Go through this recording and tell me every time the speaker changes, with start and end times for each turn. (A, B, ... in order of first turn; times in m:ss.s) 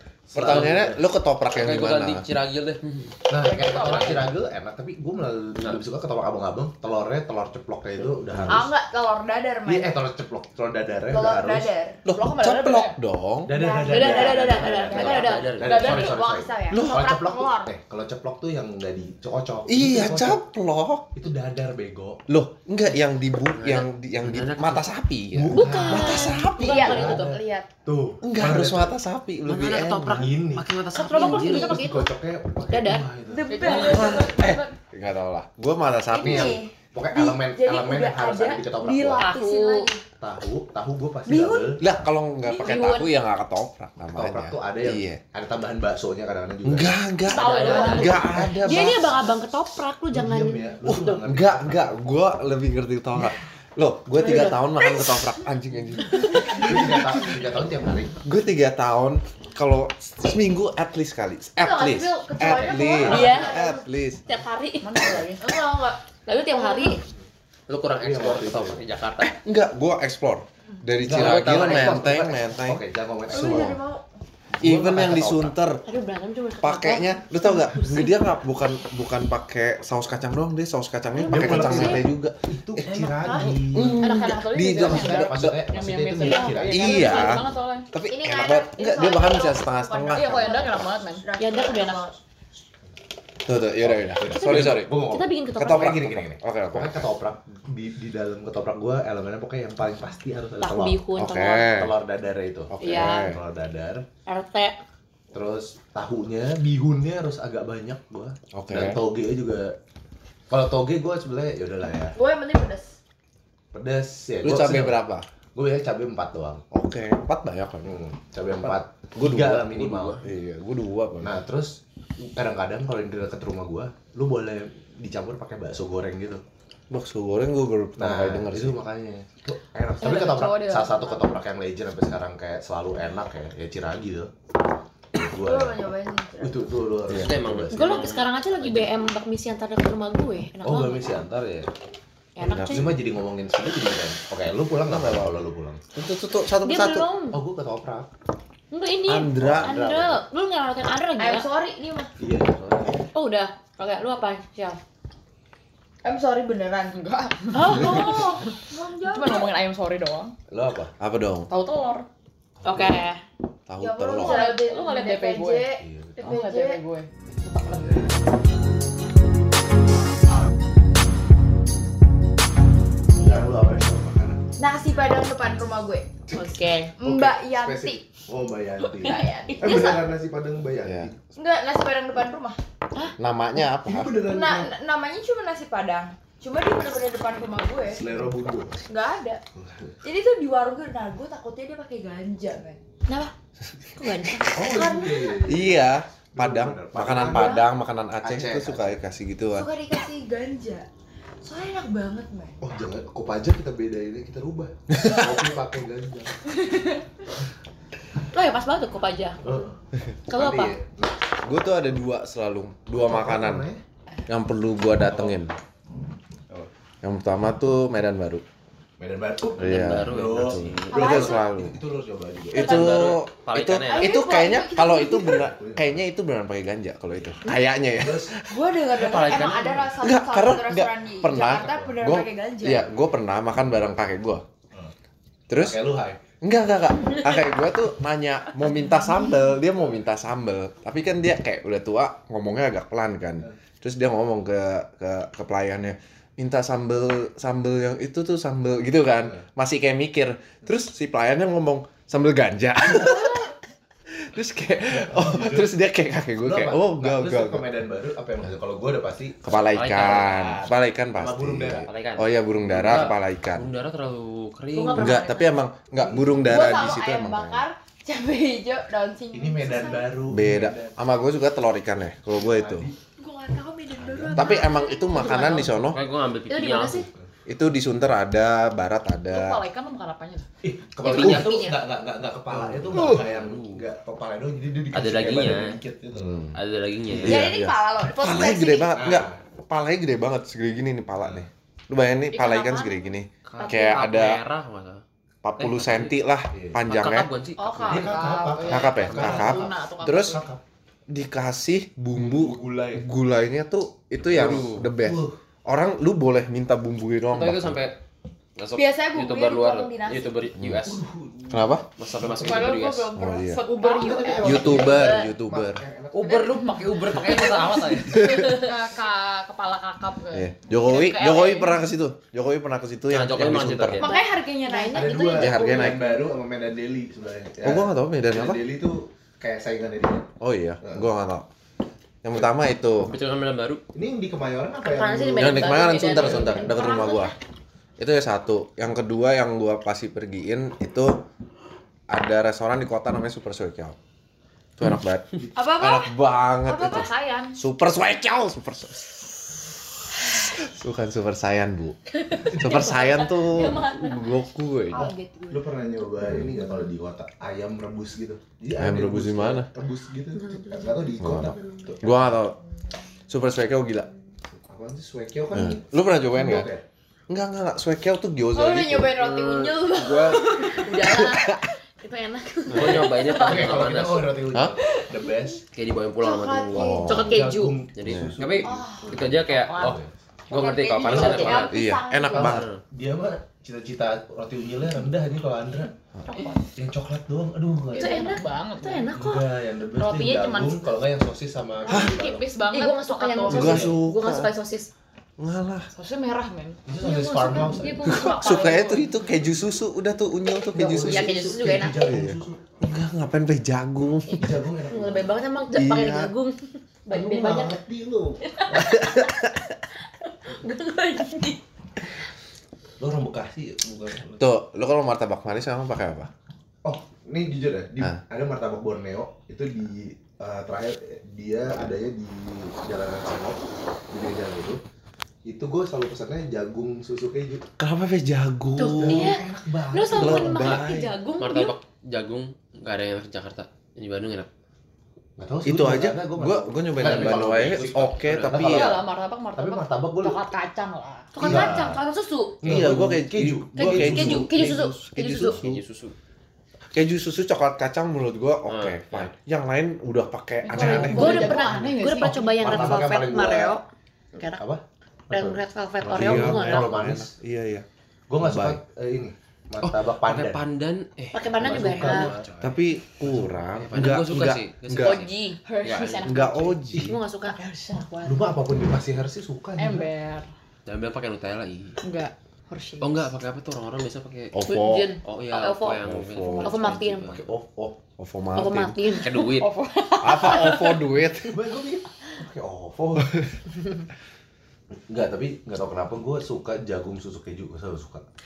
0:00.3-0:01.0 A
0:00.3-0:02.3 B
0:00.5-0:00.8 C
0:01.5-0:03.2 C
0:03.3-0:08.7 A
0:03.6-0:04.2 D
0:03.7-0:04.3 C
0:03.8-0:04.0 E
0:08.3-0:08.7 B
0:08.5-0:10.0 E
0:09.6-0:11.7 A
0:11.1-0:12.0 E
0:12.0-0:13.5 B
0:12.1-0:13.0 D
0:13.5-0:20.4 A
0:13.5-0:17.7 E
0:13.8-0:15.6 F
0:14.9-0:16.2 C
0:16.7-0:17.1 B
0:19.7-0:21.1 B
0:21.1-0:22.2 A
0:22.3-0:27.2 B
0:23.5-0:24.9 C
0:25.3-0:28.9 A
0:25.5-0:27.3 F
0:26.6-0:27.7 E
0:28.2-0:30.3 B
0:29.4-0:31.8 C
0:30.1-0:34.0 A
0:30.9-0:32.1 F
0:32.7-0:33.1 F
0:33.3-0:34.7 E
0:33.5-0:34.5 D
0:33.6-0:36.6 B
0:36.1-0:40.0 E
0:36.2-0:39.3 A
0:39.1-0:39.9 F
0:40.2-0:41.9 A
0:41.2-0:41.8 E
0:41.8-0:45.2 B
0:42.5-0:43.0 E
0:42.6-0:43.1 F
0:44.1-0:46.9 A
0:46.6-0:49.1 B
0:47.3-0:51.2 F
0:47.3-0:48.6 E
0:47.4-0:48.1 C
0:47.5-0:48.1 D
0:48.3-0:49.1 A
0:50.1-0:52.0 A
0:51.2-0:57.4 B
0:54.2-0:55.2 F
0:56.2-0:56.5 F
0:56.5-0:58.2 A
0:58.2-1:04.2 B
1:01.6-1:03.9 E
1:02.4-1:02.9 D
1:02.8-1:03.3 A
1:03.0-1:03.6 F
1:04.2-1:07.0 F
1:04.8-1:05.4 D
1:05.5-1:06.0 E
1:06.5-1:07.0 E
1:07.7-1:09.4 C
1:08.0-1:08.8 A
1:09.2-1:13.8 B
1:11.0-1:13.8 A
1:11.0-1:12.1 C
1:13.3-1:14.0 E
1:14.5-1:15.6 A
1:14.6-1:15.8 B
1:15.8-1:18.2 F
1:16.6-1:25.6 B
1:21.1-1:22.0 F
1:21.3-1:27.4 A
1:23.0-1:23.6 E
1:24.0-1:27.9 D
1:26.2-1:26.5 F
1:26.7-1:30.6 B
1:28.0-1:32.2 E
1:30.1-1:31.2 D
1:31.4-1:32.1 F
1:33.4-1:35.0 B
1:33.8-1:41.0 A
1:34.5-1:36.0 F
1:35.5-1:37.1 B
1:40.6-1:41.7 F
1:41.2-1:41.9 B
1:41.6-1:44.0 A
1:42.7-1:43.4 B
1:44.2-1:44.8 F
1:45.3-1:49.8 A
1:48.5-1:49.0 B
1:50.5-1:52.2 A
1:52.2-1:52.9 E
1:53.7-1:55.0 A
1:54.4-1:55.3 B
1:55.5-1:56.6 A
1:56.7-1:57.9 B
1:57.8-2:00.2 A
1:58.6-2:01.4 B
1:59.6-2:00.2 C
2:01.2-2:06.4 A
2:06.9-2:08.8 B
2:08.0-2:14.3 A
2:10.0-2:11.2 E
2:10.3-2:10.8 D
2:15.1-2:15.9 A
2:15.3-2:16.7 E
2:16.4-2:18.0 A
2:17.1-2:17.3 B
2:17.1-2:18.9 C
2:17.7-2:21.0 F
2:20.6-2:21.7 A
2:22.4-2:22.9 F
2:22.4-2:22.9 B
2:22.4-2:25.8 A
2:24.8-2:25.4 B
2:25.9-2:27.1 B
2:26.6-2:27.4 F
2:27.3-2:28.1 A
2:28.7-2:31.5 F
2:29.0-2:29.8 B
2:29.3-2:30.2 A
2:31.2-2:32.1 E
2:32.2-2:33.1 A
2:33.1-2:34.8 F
2:36.0-2:39.5 E
2:37.0-2:40.3 D
2:40.5-2:40.9 A
2:41.0-2:41.5 B
2:41.5-2:42.1 D
2:42.6-2:43.2 F
2:43.7-2:44.6 B
2:43.8-2:46.8 E
2:44.2-2:48.1 D
2:45.8-2:46.2 A
2:47.7-2:48.0 A
2:53.2-2:53.4 E
2:53.2-2:54.4 A
2:54.6-2:56.2 E
2:56.3-2:57.0 F
2:56.9-2:58.0 E
2:57.0-3:01.2 A
2:58.9-3:00.1 E
3:00.8-3:01.1 B
3:01.3-3:02.6 E
3:03.2-3:04.2 B
3:03.8-3:04.7 A
3:04.2-3:08.0 E
3:07.8-3:08.8 A
3:08.9-3:09.4 E
3:09.6-3:09.9 A
3:10.0-3:13.3 E
3:14.0-3:14.8 F
3:14.5-3:17.6 A
3:14.6-3:15.5 E
3:15.5-3:19.7 B
3:17.2-3:17.6 E
3:18.2-3:19.0 A
3:19.5-3:20.9 E
3:21.4-3:22.6 E
3:22.6-3:26.4 A
3:26.6-3:27.0 E
3:28.3-3:29.4 F
3:29.4-3:29.8 A
3:30.3-3:30.8 F
3:30.3-3:31.1 A
3:31.4-3:33.6 B
3:33.0-3:33.8 A
3:34.3-3:35.6 B
3:35.0-3:35.4 A
3:37.0-3:38.4 B
3:39.0-3:43.2 A
3:39.6-3:41.8 B
3:39.6-3:41.2 C
3:40.9-3:41.4 E
3:42.5-3:49.2 B
3:42.5-3:44.2 C
3:43.7-3:45.4 E
3:45.0-3:46.0 A
3:48.0-3:48.4 A
3:48.4-3:52.9 E
3:48.9-3:49.9 C
3:50.0-3:54.4 B
3:51.5-3:51.9 A
3:55.5-3:55.8 B
3:55.5-3:56.2 A
3:56.4-4:13.5 B
4:09.2-4:09.4 A
4:14.1-4:17.7 B
4:14.9-4:15.7 A
4:16.4-4:19.4 A
4:19.4-4:23.7 B
4:19.7-4:20.6 C
4:20.3-4:21.9 A
4:21.8-4:25.1 C
4:24.7-4:25.6 F
4:24.9-4:27.6 B
4:26.0-4:27.0 A
4:26.4-4:30.1 E
4:29.3-4:31.0 A
4:30.2-4:32.9 B
4:32.4-4:33.0 A
4:33.2-4:35.1 E
4:34.0-4:34.5 A
4:34.3-4:36.0 B
4:34.5-4:35.7 F
4:35.6-4:37.1 C
4:36.5-4:37.1 F
4:37.5-4:39.6 B
4:39.3-4:40.5 D
4:40.6-4:46.5 A
4:41.0-4:41.8 F
4:41.0-4:41.4 C
4:41.1-4:41.4 B
4:42.5-4:43.2 B
4:42.9-4:43.8 C
4:44.9-4:45.8 C
4:46.2-4:46.6 B
4:46.5-4:47.4 C
4:47.1-4:47.4 A
4:47.3-4:49.0 E
4:47.3-4:54.4 B
4:48.9-4:49.4 A
4:51.2-4:51.4 A
4:53.4-4:55.0 C
4:53.6-4:54.0 D
4:55.4-4:57.3 B
4:55.6-4:56.2 C
4:56.5-4:56.8 A
4:56.9-4:58.2 C
4:57.6-5:00.4 D
4:57.8-5:00.6 A
4:58.6-5:00.4 B
5:01.1-5:07.8 B
5:02.1-5:03.1 A
5:04.2-5:04.9 C
5:04.3-5:05.4 A
5:07.3-5:08.0 C
5:08.6-5:11.0 C
5:08.7-5:10.3 E
5:10.6-5:10.8 B
5:10.8-5:12.8 A
5:11.5-5:11.9 B
5:12.0-5:13.2 C
5:12.3-5:15.2 D
5:13.1-5:13.6 B
5:13.9-5:16.5 A
5:14.4-5:15.8 B
5:16.1-5:18.6 C
5:16.2-5:21.8 D
5:18.1-5:18.6 B
5:20.3-5:24.1 B
5:23.1-5:24.1 C
5:23.9-5:26.0 E
5:24.6-5:25.2 F
5:24.9-5:31.0 A
5:25.2-5:26.1 B
5:27.6-5:28.6 B
5:30.4-5:31.5 B
5:32.2-5:33.1 B
5:33.0-5:33.8 C
5:33.9-5:36.7 A
5:34.9-5:37.3 F
5:35.4-5:37.3 B
5:36.8-5:37.2 E
5:38.0-5:41.2 B
5:42.1-5:44.0 B
5:44.8-5:49.6 B
5:45.5-5:46.1 E
5:46.6-5:47.6 D
5:50.3-5:55.1 B
5:52.2-5:54.2 F
5:54.9-5:55.8 E
5:55.5-6:02.3 A
5:58.7-5:59.7 B
6:00.4-6:01.0 F
6:01.2-6:02.6 B
6:03.3-6:04.1 B
6:04.6-6:06.8 A
6:05.5-6:06.7 B
6:07.3-6:09.2 B
6:08.5-6:11.5 E
6:09.1-6:10.8 C
6:10.5-6:13.2 F
6:11.2-6:11.6 B
6:12.7-6:14.5 C
6:13.0-6:13.7 E
6:13.3-6:15.6 A
6:15.0-6:15.5 E
6:15.7-6:17.1 C
6:16.2-6:17.2 E
6:16.7-6:17.3 B
6:17.1-6:17.8 F
6:17.1-6:20.1 A
6:17.9-6:20.0 C
6:18.0-6:18.4 B
6:18.6-6:19.2 E
6:20.5-6:21.8 C
6:20.5-6:22.6 E
6:21.0-6:21.7 A
6:21.1-6:21.6 F
6:21.7-6:22.7 B
6:22.3-6:25.9 A
6:22.3-6:22.8 C
6:26.3-6:26.6 D
6:26.8-6:28.2 A
6:27.9-6:29.1 D
6:27.9-6:29.5 F
6:29.1-6:32.5 A
6:30.0-6:30.9 D
6:31.8-6:33.9 D
6:31.9-6:32.1 B
6:32.7-6:34.9 F
6:33.5-6:34.5 B
6:33.5-6:33.9 A
6:35.4-6:35.9 B
6:35.9-6:36.8 D
6:36.9-6:38.1 A
6:37.0-6:38.9 F
6:38.0-6:44.5 B
6:38.0-6:39.1 D
6:40.7-6:42.8 A
6:40.9-6:42.0 F
6:44.3-6:45.3 A
6:44.8-6:47.8 F
6:45.7-6:46.3 B
6:47.1-6:48.4 A
6:48.4-6:49.5 F
6:48.7-6:49.6 B
6:50.2-6:51.6 F
6:53.0-6:54.5 A
6:54.4-6:56.3 B
6:56.8-7:04.8 A
7:05.4-7:07.6 A
7:07.8-7:09.4 B
7:08.8-7:11.8 F
7:08.8-7:10.8 A
7:10.1-7:11.2 B
7:11.4-7:14.5 C
7:15.4-7:20.4 A
7:15.6-7:19.0 B
7:17.0-7:18.8 C
7:18.6-7:21.4 D
7:21.3-7:22.6 F
7:21.4-7:22.0 A
7:21.4-7:21.9 B
7:22.6-7:24.5 A
7:22.6-7:25.8 B
7:23.8-7:25.6 F
7:25.4-7:26.1 C
7:26.9-7:31.7 B
7:28.7-7:29.3 C
7:30.6-7:32.9 D
7:30.8-7:34.6 F
7:32.6-7:33.8 A
7:34.6-7:37.3 A
7:35.3-7:36.9 F
7:36.1-7:37.8 B
7:38.3-7:40.6 A
7:38.4-7:38.8 B
7:39.8-7:42.8 C
7:41.3-7:42.3 F
7:41.6-7:42.5 A
7:42.6-7:45.2 B
7:43.8-7:46.4 C
7:45.0-7:45.6 F
7:45.6-7:46.8 D
7:46.2-7:47.2 B
7:46.9-7:47.6 F
7:47.4-7:48.5 D
7:48.2-7:50.1 A
7:49.8-7:50.5 D
7:50.8-7:52.0 C
7:52.0-7:53.3 D
7:53.0-7:54.6 C
7:54.5-7:55.1 B
7:54.6-7:56.0 F
7:55.2-7:57.5 C
7:56.0-7:56.8 B
7:56.6-7:57.4 F
7:57.3-7:58.0 A
7:58.2-7:59.0 B
7:58.5-7:59.4 F
7:59.2-7:59.7 C
7:59.3-8:01.2 D
8:00.2-8:01.6 B
8:01.5-8:03.4 A
8:05.1-8:08.2 A